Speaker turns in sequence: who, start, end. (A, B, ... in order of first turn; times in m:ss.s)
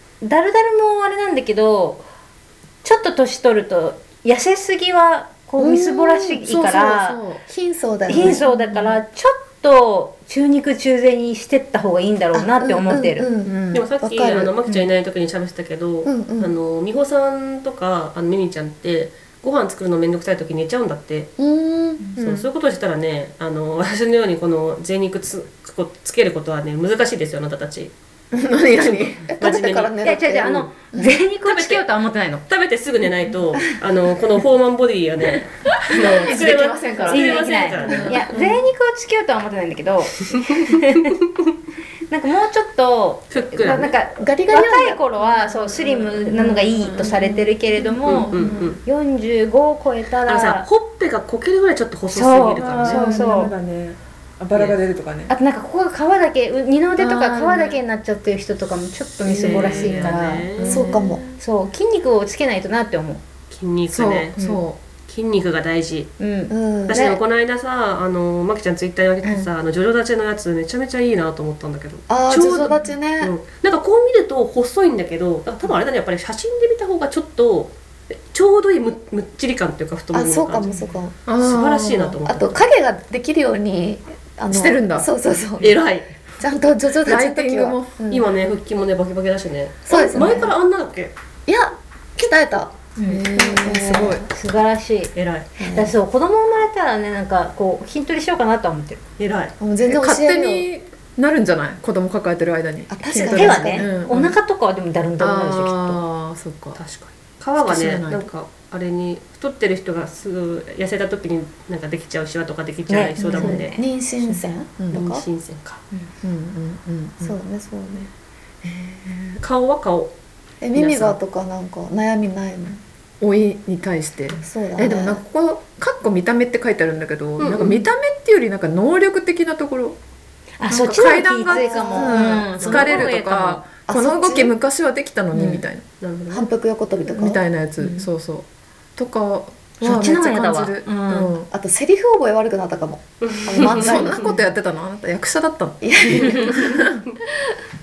0:00.2-0:02.0 A
0:02.8-0:07.2 A
0:05.6-0:06.4 B
0:06.4-0:07.4 C
0:07.5-0:08.4 B
0:08.1-0:13.3 A
0:08.2-0:09.0 C
0:12.3-0:14.5 B
0:13.4-0:13.8 C
0:13.7-0:21.3 D
0:16.0-0:16.5 B
0:21.4-0:22.0 B
0:22.2-0:22.5 C
0:22.2-0:27.9 D
0:28.3-0:29.3 C
0:28.8-0:30.0 D
0:29.3-0:31.2 B
0:30.0-0:32.4 A
0:31.4-0:31.8 D
0:32.5-0:38.3 D
0:35.9-0:38.6 C
0:35.9-0:41.1 A
0:40.5-0:40.9 D
0:42.1-0:50.7 A
0:43.3-0:44.0 D
0:44.2-0:45.0 B
0:45.6-0:48.8 C
0:48.0-0:48.8 D
0:50.3-0:53.1 D
0:52.1-0:53.5 A
0:52.6-0:55.3 C
0:54.5-0:54.8 D
0:55.3-1:00.5 A
0:57.0-0:57.8 C
0:59.2-1:01.4 C
0:59.3-1:00.8 D
1:00.6-1:01.2 B
1:01.4-1:03.2 A
1:03.5-1:04.3 D
1:03.9-1:04.8 C
1:04.4-1:04.6 A
1:05.1-1:06.1 D
1:06.2-1:07.2 A
1:06.5-1:07.1 B
1:06.9-1:20.7 D
1:09.2-1:09.5 A
1:12.1-1:13.3 B
1:20.1-1:21.2 B
1:21.3-1:22.2 C
1:21.4-1:22.6 D
1:22.3-1:25.8 B
1:24.5-1:25.1 C
1:25.6-1:26.1 D
1:26.4-1:28.2 B
1:27.0-1:28.0 C
1:28.1-1:31.1 D
1:29.9-1:30.6 B
1:31.5-1:32.7 B
1:33.0-1:33.2 A
1:33.1-1:34.3 C
1:33.3-1:34.3 B
1:34.3-1:35.1 A
1:35.2-1:35.5 D
1:35.6-1:35.9 B
1:35.7-1:39.0 A
1:39.2-1:39.5 D
1:39.6-1:40.7 B
1:39.9-1:44.4 C
1:42.9-1:43.9 B
1:43.1-1:46.0 A
1:45.2-1:46.8 C
1:46.8-1:53.7 D
1:47.6-1:48.3 C
1:52.9-1:54.4 A
1:53.2-1:53.6 C
1:53.7-1:55.2 B
1:54.9-1:55.8 D
1:56.2-1:57.4 C
1:57.2-1:58.1 B
1:58.6-1:59.4 C
1:59.4-2:00.1 D
2:00.6-2:02.8 B
2:00.8-2:01.2 D
2:03.2-2:10.0 C
2:04.4-2:05.2 B
2:07.4-2:07.8 D
2:10.6-2:13.6 A
2:10.7-2:15.8 C
2:11.5-2:12.3 B
2:12.6-2:13.1 D
2:13.9-2:14.6 B
2:15.3-2:15.6 A
2:16.0-2:16.5 D
2:16.3-2:17.4 B
2:17.1-2:21.5 C
2:17.8-2:18.1 A
2:19.8-2:21.3 A
2:21.5-2:24.3 B
2:23.2-2:24.2 D
2:23.6-2:27.0 C
2:25.8-2:26.7 B
2:26.2-2:26.5 D